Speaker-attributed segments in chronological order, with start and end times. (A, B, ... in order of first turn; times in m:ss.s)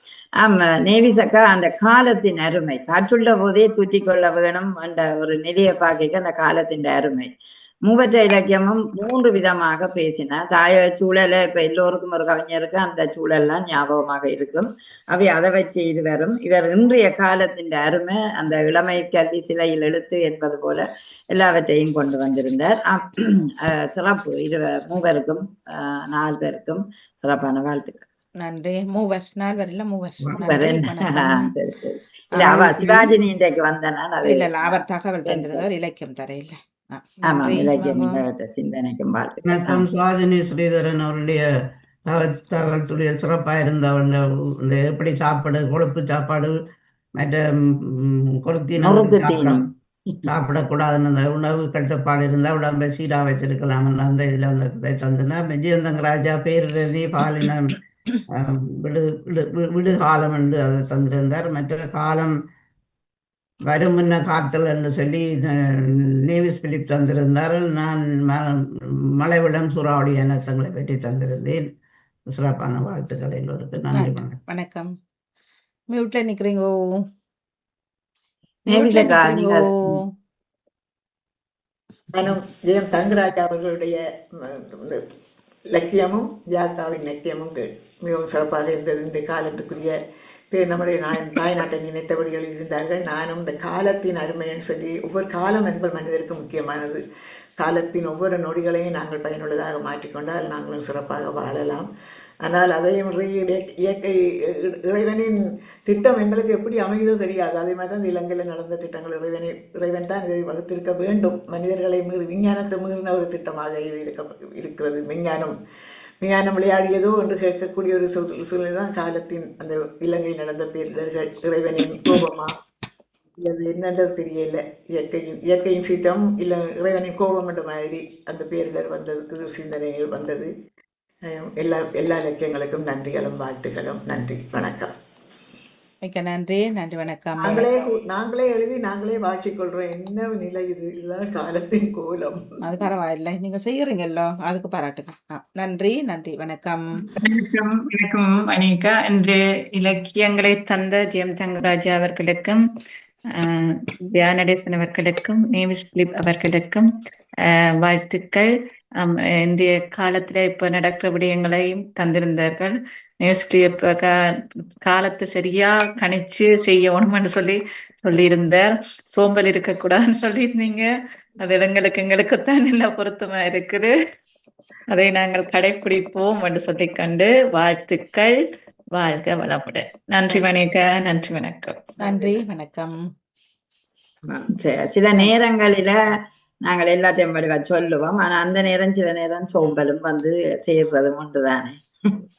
0:00.4-0:07.3 A
0:07.8-0:28.0 A
0:28.4-0:31.5 B
0:30.3-0:35.6 A
0:32.3-0:33.1 B
0:34.2-0:38.2 B
0:37.3-0:39.8 A
0:39.4-0:41.4 C
0:42.1-0:46.5 C
0:47.2-0:49.6 C
0:48.8-0:49.6 A
0:50.2-0:57.8 C
0:58.3-1:02.3 C
1:03.7-1:08.5 C
1:09.2-1:11.6 C
1:12.3-1:14.4 C
1:13.9-1:14.9 B
1:15.9-1:16.7 B
1:18.7-1:20.0 B
1:18.7-1:19.7 A
1:22.1-1:25.0 D
1:25.7-1:29.9 D
1:30.5-1:37.0 D
1:37.6-1:41.9 D
1:42.4-1:45.3 D
1:45.8-1:55.5 D
1:56.2-2:02.5 D
2:03.4-2:10.5 D
2:11.3-2:14.9 D
2:16.0-2:17.7 B
2:17.4-2:22.4 D
2:22.6-2:26.8 B
2:27.1-2:32.6 E
2:34.1-2:36.9 E
2:37.5-2:38.5 E
2:39.0-2:44.1 E
2:44.8-2:50.9 E
2:51.4-2:53.9 E
2:54.9-2:58.4 E
2:59.0-3:02.2 E
3:02.0-3:02.9 B
3:04.3-3:06.0 A
3:06.6-3:11.8 A